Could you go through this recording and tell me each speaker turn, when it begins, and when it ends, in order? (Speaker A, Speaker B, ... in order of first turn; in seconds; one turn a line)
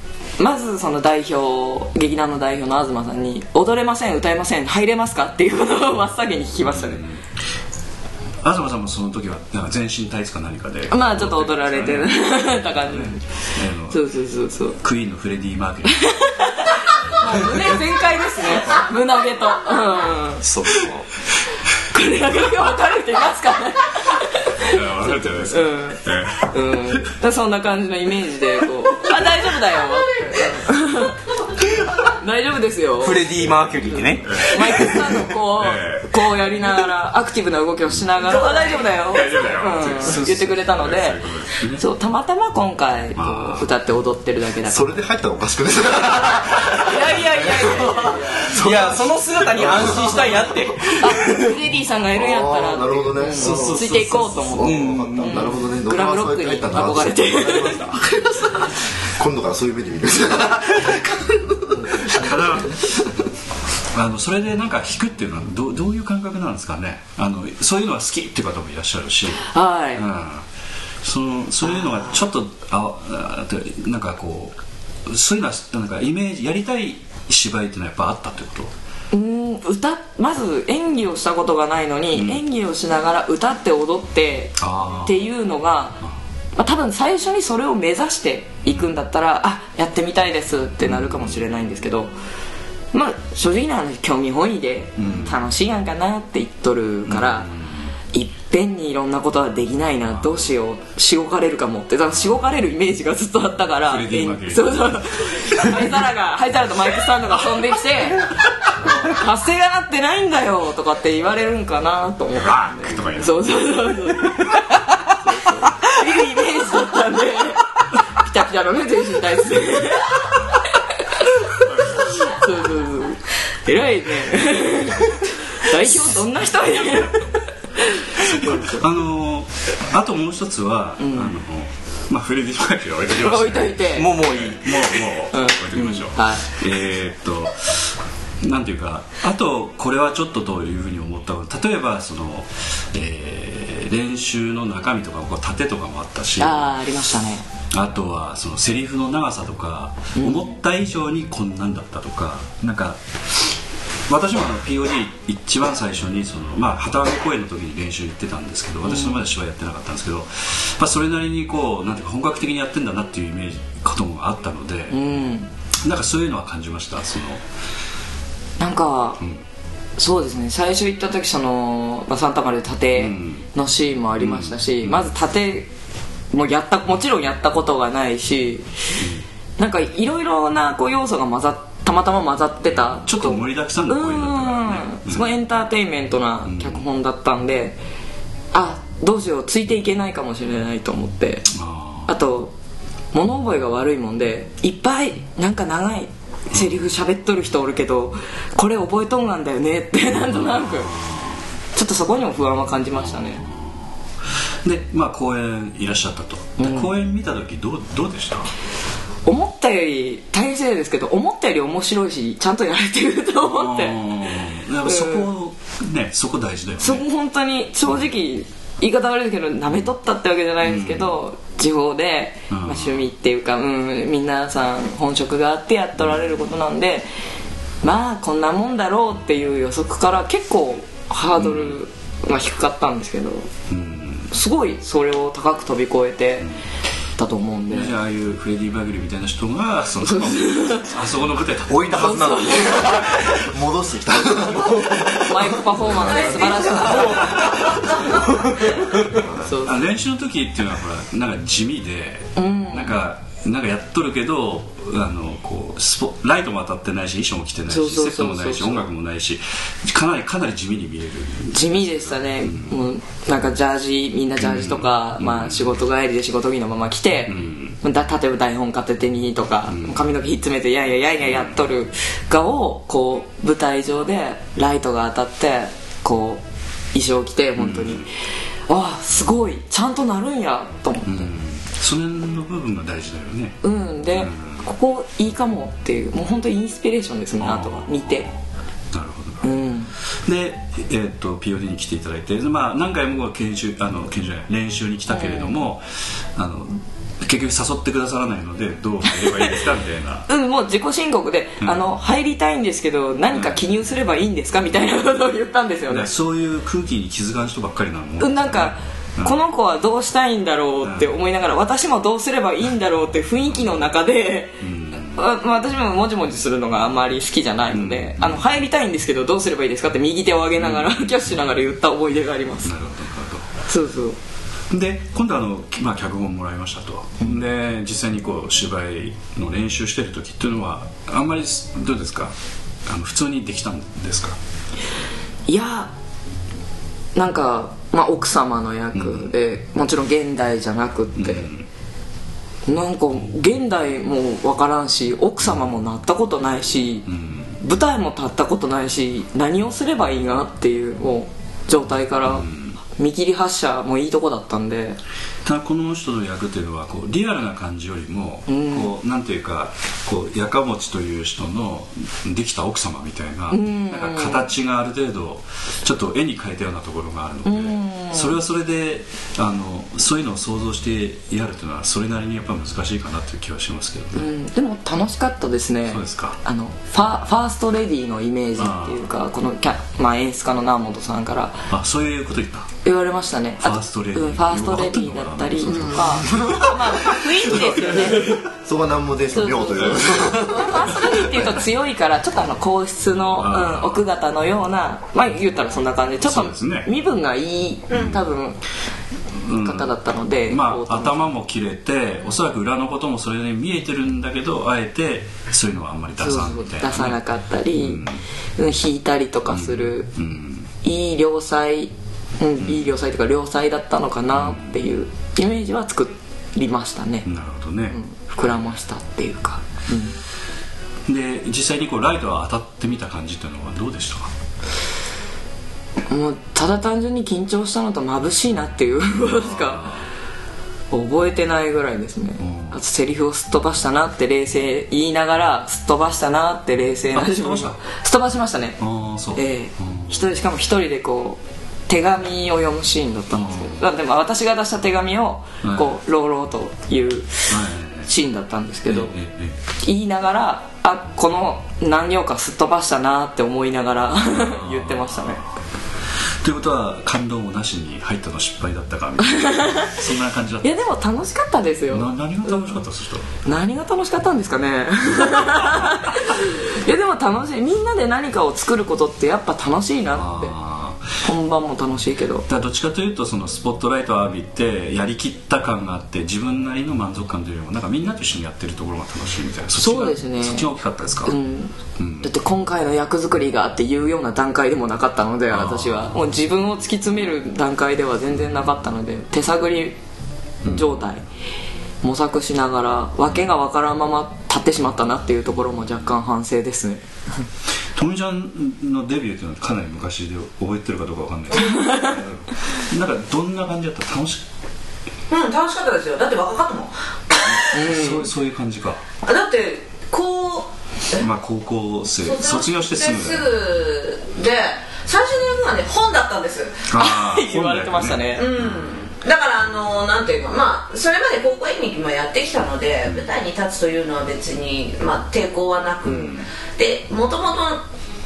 Speaker A: 0.4-7.0
Speaker B: 6.7-7.2
Speaker B: 8.4-14.1
Speaker A: 10.9-13.2
Speaker A: 13.9-14.8
Speaker B: 14.8-16.1
Speaker A: 15.9-20.5
Speaker C: 20.4-21.0
Speaker A: 21.8-31.2
Speaker B: 24.6-26.5
Speaker A: 31.9-33.3
Speaker C: 33.0-35.2
Speaker A: 34.3-45.0
Speaker B: 35.5-36.1
Speaker D: 38.3-38.9
Speaker B: 39.1-41.8
Speaker B: 43.1-43.7
Speaker E: 44.6-50.7
Speaker A: 46.8-48.5
Speaker C: 48.5-51.5
Speaker A: 51.0-57.9
Speaker E: 52.1-62.3
Speaker C: 53.4-53.9
Speaker C: 54.6-55.5
Speaker B: 62.0-63.0
Speaker B: 63.9-70.4
Speaker A: 69.4-70.0
Speaker B: 71.0-74.5
Speaker B: 75.0-78.7
Speaker A: 79.1-86.0
Speaker B: 82.1-82.4
Speaker B: 84.6-85.2
Speaker A: 86.5-92.1
Speaker B: 88.6-88.9
Speaker B: 90.8-91.6
Speaker A: 92.9-97.5
Speaker B: 95.0-95.4
Speaker B: 97.1-97.9
Speaker A: 98.1-121.3
Speaker B: 100.2-100.4
Speaker B: 103.9-105.8
Speaker B: 112.3-113.5
Speaker B: 121.7-122.2
Speaker A: 122.0-128.9
Speaker B: 128.2-146.8
Speaker A: 131.0-131.4
Speaker A: 133.2-134.1
Speaker C: 133.9-135.0
Speaker A: 135.3-136.6
Speaker A: 146.4-147.4
Speaker B: 147.7-153.4
Speaker A: 150.1-150.5
Speaker B: 154.1-165.1
Speaker A: 158.8-159.2
Speaker A: 164.9-165.5
Speaker B: 165.8-167.4
Speaker A: 168.6-169.2
Speaker A: 170.0-175.7
Speaker B: 173.0-173.4
Speaker B: 174.2-175.1
Speaker A: 176.3-178.7
Speaker B: 179.0-179.2
Speaker A: 179.6-187.8
Speaker B: 182.7-185.3
Speaker B: 186.4-186.8
Speaker A: 188.5-191.5
Speaker B: 191.5-192.1
Speaker A: 192.1-192.5
Speaker A: 193.1-200.9
Speaker B: 200.4-201.4
Speaker A: 201.7-203.4
Speaker B: 202.9-203.9
Speaker B: 204.6-208.5
Speaker A: 206.6-206.9
Speaker A: 209.2-215.3
Speaker B: 213.4-217.1
Speaker A: 216.8-227.1
Speaker B: 220.6-221.2
Speaker B: 222.5-223.1
Speaker A: 227.8-233.5
Speaker B: 231.4-231.8
Speaker B: 233.7-234.3
Speaker A: 234.3-236.5
Speaker A: 237.2-237.9
Speaker B: 237.7-242.3
Speaker A: 240.1-240.9
Speaker E: 241.7-247.7
Speaker A: 241.9-243.1
Speaker A: 245.2-247.4
Speaker D: 246.3-247.0
Speaker E: 249.1-249.4
Speaker A: 249.4-249.8
Speaker B: 249.6-262.8
Speaker A: 252.3-253.0
Speaker A: 257.7-258.8
Speaker A: 261.5-278.1
Speaker B: 264.4-265.8
Speaker B: 267.3-267.8
Speaker B: 269.7-270.0
Speaker B: 271.2-271.5
Speaker B: 277.6-278.1
Speaker A: 278.7-281.3
Speaker B: 281.1-284.6
Speaker A: 283.6-288.3
Speaker B: 287.4-288.4
Speaker B: 288.9-289.4
Speaker A: 289.4-289.9
Speaker B: 290.1-295.8
Speaker A: 295.1-295.6
Speaker B: 296.3-300.3
Speaker A: 299.1-299.5
Speaker A: 300.3-306.1
Speaker B: 303.3-303.6
Speaker B: 305.9-309.4
Speaker A: 308.2-322.7
Speaker B: 310.8-311.1
Speaker B: 314.6-315.2
Speaker B: 317.7-318.4
Speaker B: 320.6-321.4
Speaker B: 322.6-323.4
Speaker A: 323.7-324.2
Speaker B: 324.7-332.3
Speaker B: 332.9-334.4
Speaker A: 335.5-335.9
Speaker A: 337.1-341.5
Speaker B: 338.9-339.3
Speaker B: 341.2-341.6
Speaker A: 342.7-347.1
Speaker B: 347.1-347.6
Speaker A: 347.6-352.5
Speaker B: 352.3-352.7
Speaker A: 353.0-355.0
Speaker B: 355.4-374.3
Speaker A: 358.5-358.9
Speaker A: 363.5-364.5
Speaker A: 367.4-368.4
Speaker A: 374.1-381.7
Speaker B: 375.9-376.4
Speaker B: 378.6-379.0
Speaker B: 381.7-382.7
Speaker A: 382.8-388.4
Speaker B: 383.6-386.6
Speaker E: 386.2-386.7
Speaker E: 387.8-391.2
Speaker A: 389.3-398.6
Speaker B: 393.3-394.0
Speaker B: 396.2-396.9
Speaker B: 397.9-398.2
Speaker B: 399.4-407.2
Speaker A: 399.6-401.3
Speaker A: 406.2-408.0
Speaker B: 407.7-408.2
Speaker A: 408.6-410.1
Speaker B: 409.5-410.7
Speaker A: 410.8-417.3
Speaker B: 414.3-414.7
Speaker B: 417.2-418.0
Speaker A: 417.9-420.1
Speaker B: 421.1-424.3
Speaker A: 426.1-429.9
Speaker B: 429.3-430.0
Speaker A: 430.9-438.8
Speaker B: 432.4-432.8
Speaker B: 437.1-437.8
Speaker B: 438.8-440.1
Speaker A: 439.3-447.5
Speaker B: 443.3-443.9
Speaker B: 445.6-445.9
Speaker B: 447.5-448.1
Speaker A: 448.1-449.1
Speaker B: 448.9-449.6
Speaker A: 449.8-455.4
Speaker B: 454.4-455.5
Speaker B: 456.4-460.8
Speaker A: 459.2-459.9
Speaker A: 460.6-462.8
Speaker B: 461.9-463.4
Speaker A: 463.4-470.5
Speaker B: 465.4-466.1
Speaker B: 470.1-471.1
Speaker A: 471.2-472.5
Speaker B: 472.5-481.3
Speaker A: 479.8-480.7
Speaker A: 481.2-490.0
Speaker B: 482.0-482.3
Speaker B: 485.5-486.3
Speaker A: 490.6-491.2
Speaker B: 490.6-490.9
Speaker A: 492.0-497.0
Speaker B: 495.6-495.9
Speaker B: 497.9-504.4
Speaker A: 501.5-502.2
Speaker D: 505.3-508.0
Speaker B: 507.5-509.0
Speaker A: 507.7-508.2
Speaker D: 509.2-511.2
Speaker B: 511.2-513.5
Speaker D: 512.2-516.8
Speaker B: 516.9-518.8
Speaker A: 516.9-518.5
Speaker D: 518.3-527.8
Speaker B: 526.0-526.5